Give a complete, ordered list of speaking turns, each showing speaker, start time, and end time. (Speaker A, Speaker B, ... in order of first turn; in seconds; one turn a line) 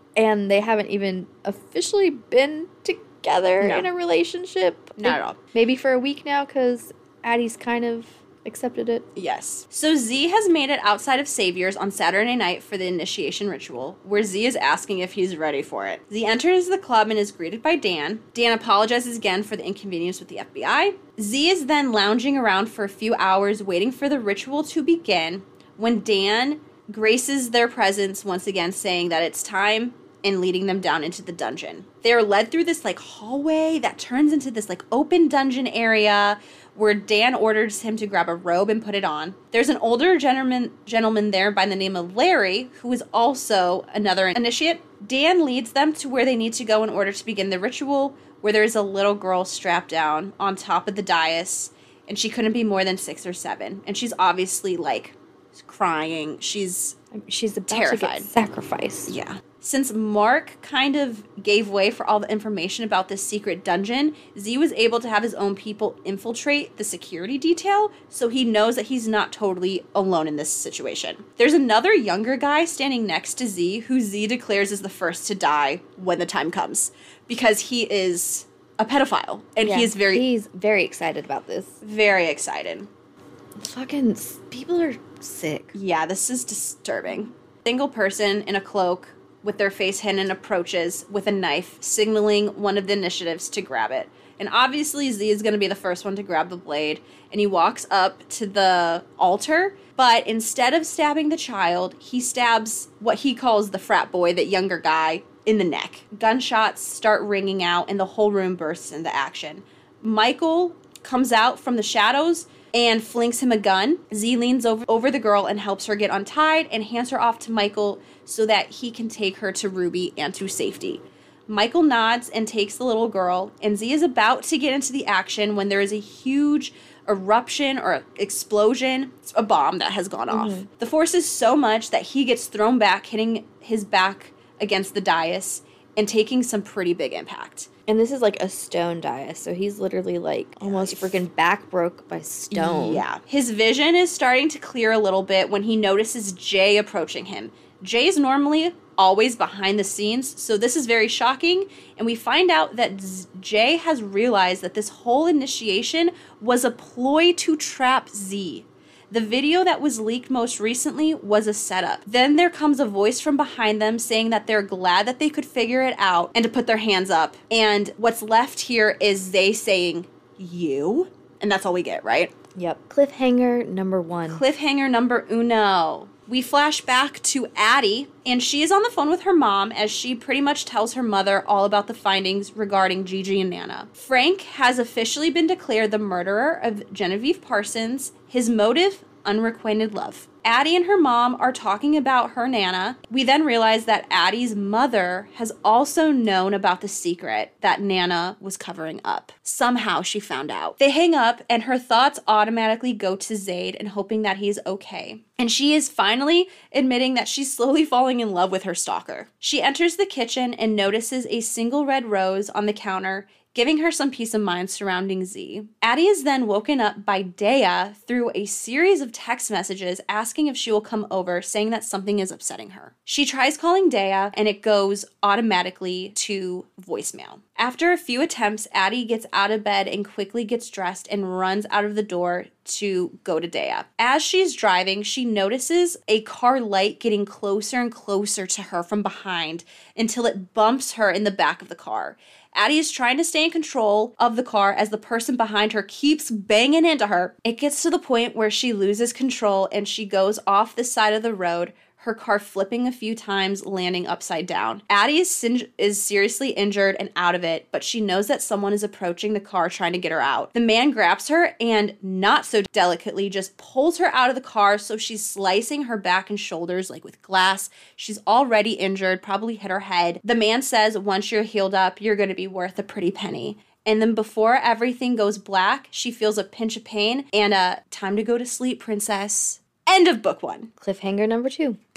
Speaker A: 0.1-9.1
Speaker B: 3.6-3.9
Speaker B: 5.0-5.4
Speaker B: 9.1-57.0
Speaker A: 57.1-59.1
Speaker B: 57.7-58.3
Speaker B: 59.1-80.2
Speaker A: 79.6-81.8
Speaker B: 81.8-82.9
Speaker A: 83.6-85.7
Speaker B: 85.7-137.7
Speaker A: 130.3-130.7
Speaker A: 137.9-143.1
Speaker B: 140.6-141.2
Speaker B: 142.5-172.3
Speaker A: 172.5-174.4
Speaker B: 174.3-280.7
Speaker A: 280.8-281.8